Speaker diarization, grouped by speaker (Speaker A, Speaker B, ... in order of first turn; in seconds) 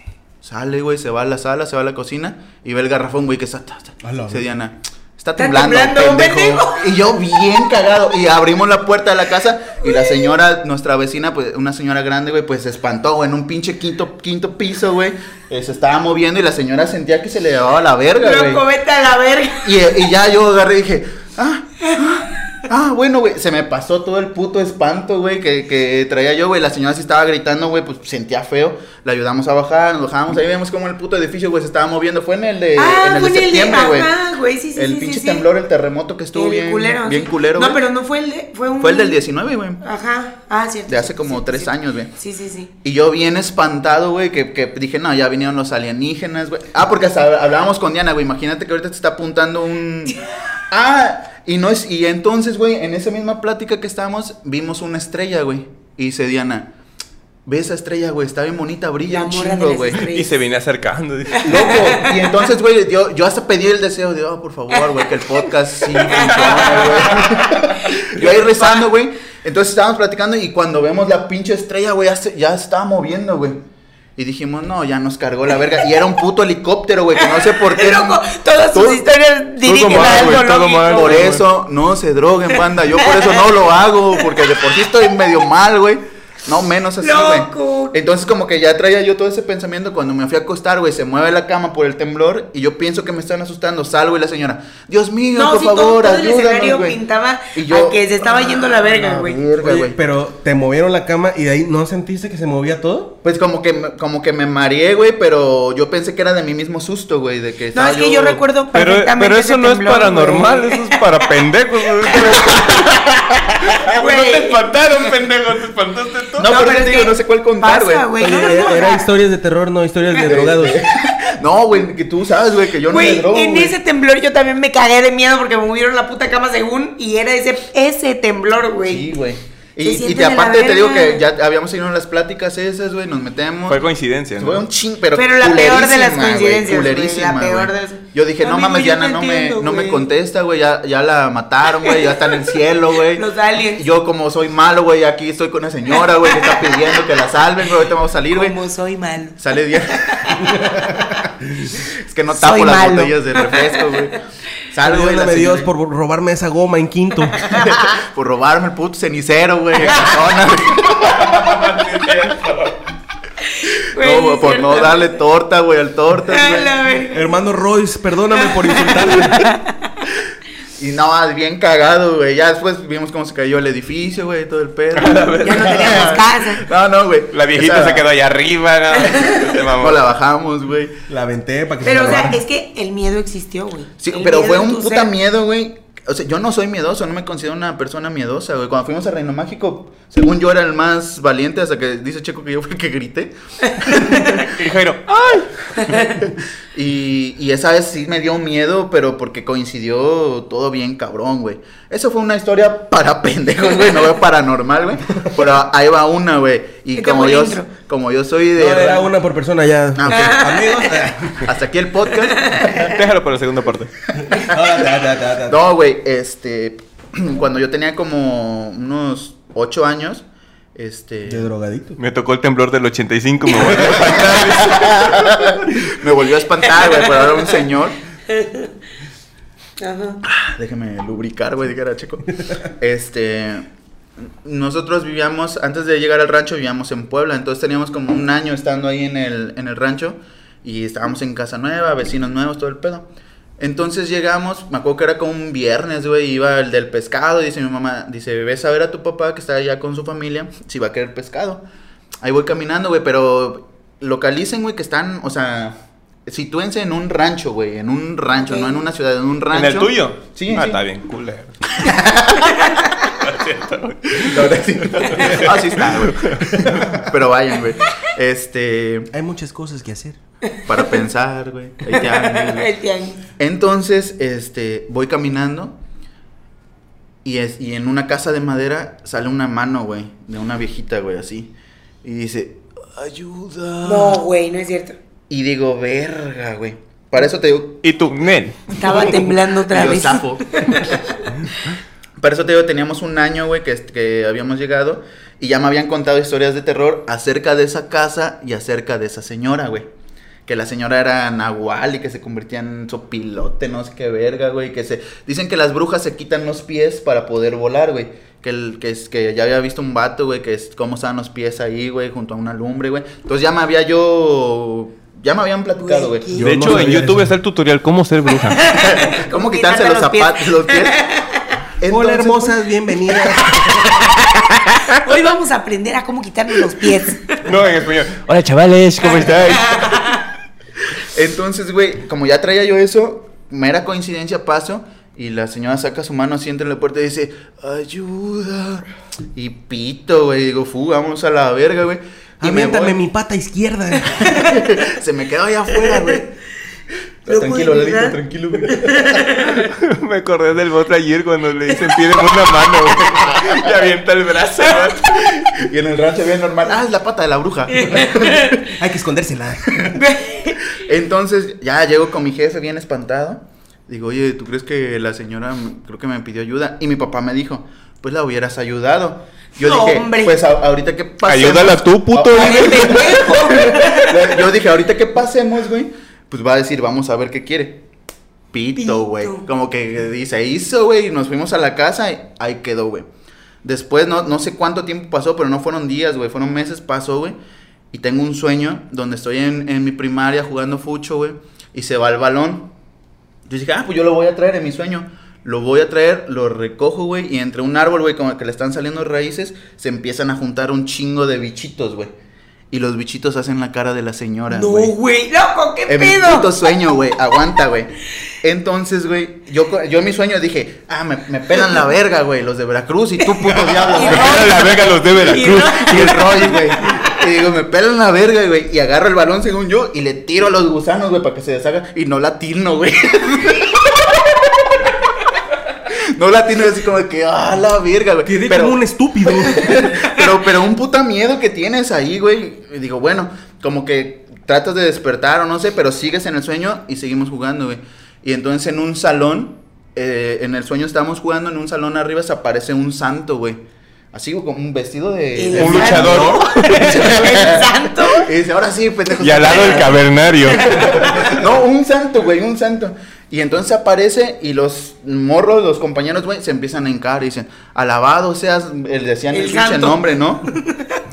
Speaker A: 0.4-18.6, 19.6-34.1, 34.8-37.8, 38.8-39.8, 40.9-42.1, 42.8-56.7, 57.5-60.1, 61.4-73.6, 74.2-78.2, 78.7-79.0, 80.0-80.3, 80.9-97.0, 97.5-100.0, 103.2-108.4, 116.4-118.1, 120.2-123.8, 128.9-133.8, 134.4-148.6, 149.4-150.5, 151.8-155.7, 157.4-161.8, 164.0-166.8, 170.8-178.1, 179.7-180.9, 184.0-194.5, 196.7-209.1, 209.9-210.5, 211.4-212.9, 215.5-221.5, 223.7-228.0, 230.2-233.7, 234.4-243.1, 243.6-251.6, 252.2-260.8, 261.8-262.7, 264.2-269.1, 270.7-272.7, 273.4-275.8, 277.2-281.5, 282.0-284.2, 285.3-287.8, 289.7-290.8, 292.2-299.9, 300.5-316.3, 318.7-321.0, 321.8-322.6, 331.0-343.0, 344.2-346.3, 347.2-349.3, 353.3-353.6, 355.1-358.6, 360.8-377.8, 378.5-383.1, 383.6-387.4, 387.9-392.7, 393.5-402.1, 402.7-404.9, 405.9-414.6, 415.8-424.9, 425.9-443.6, 444.1-460.4
Speaker B: 4.0-4.5, 99.6-103.2, 118.2-120.8, 150.4-151.7, 154.8-157.4, 167.1-169.5, 181.1-182.4, 208.5-211.5, 214.2-215.6, 221.3-222.0, 223.6-224.1, 269.1-270.2, 316.3-317.4, 321.9-324.1, 342.4-344.6, 358.2-359.9, 428.2-430.0
Speaker C: 5.4-7.1, 9.8-10.1, 18.2-19.8, 32.8-35.5, 36.3-39.2, 39.8-42.7, 59.1-60.4, 61.4-62.3, 65.9-67.0, 77.2-81.3, 83.0-83.5, 84.2-84.5, 87.0-88.0, 95.4-99.4, 107.7-111.0, 112.0-112.9, 113.9-114.6, 116.4-119.0, 122.9-129.1, 129.8-131.2, 135.2-140.1, 141.8-142.1, 143.2-143.9, 146.2-146.9, 148.3-149.4, 150.0-150.4, 152.3-154.0, 157.4-157.8, 163.4-165.2, 166.3-167.3, 168.4-169.8, 175.4-176.7, 181.8-185.1, 195.8-196.2, 206.9-207.7, 210.1-211.0, 212.3-212.9, 228.3-228.7, 229.8-230.2, 258.4-258.8, 262.6-263.0, 271.9-273.2, 283.8-285.0, 288.8-291.2, 315.8-316.7, 318.5-321.5, 324.9-327.4, 329.3-330.2, 347.3-349.7, 357.7-358.6, 359.9-360.6, 369.6-370.4, 372.3-374.3, 378.8-379.4, 404.5-406.5, 413.7-417.1, 445.4-448.3, 450.4-451.3, 459.3-461.0
Speaker D: 60.0-62.0, 66.2-67.2, 68.2-68.9, 79.7-81.5, 108.7-116.5, 133.7-134.6, 161.0-162.8, 174.9-176.2, 177.3-180.0, 194.4-196.2, 212.8-213.9, 222.0-225.3, 259.5-261.6, 263.0-267.0, 287.8-288.8, 316.4-318.6, 327.4-330.2, 349.5-355.5, 371.2-373.4, 413.9-416.6, 445.5-447.1, 449.2-451.3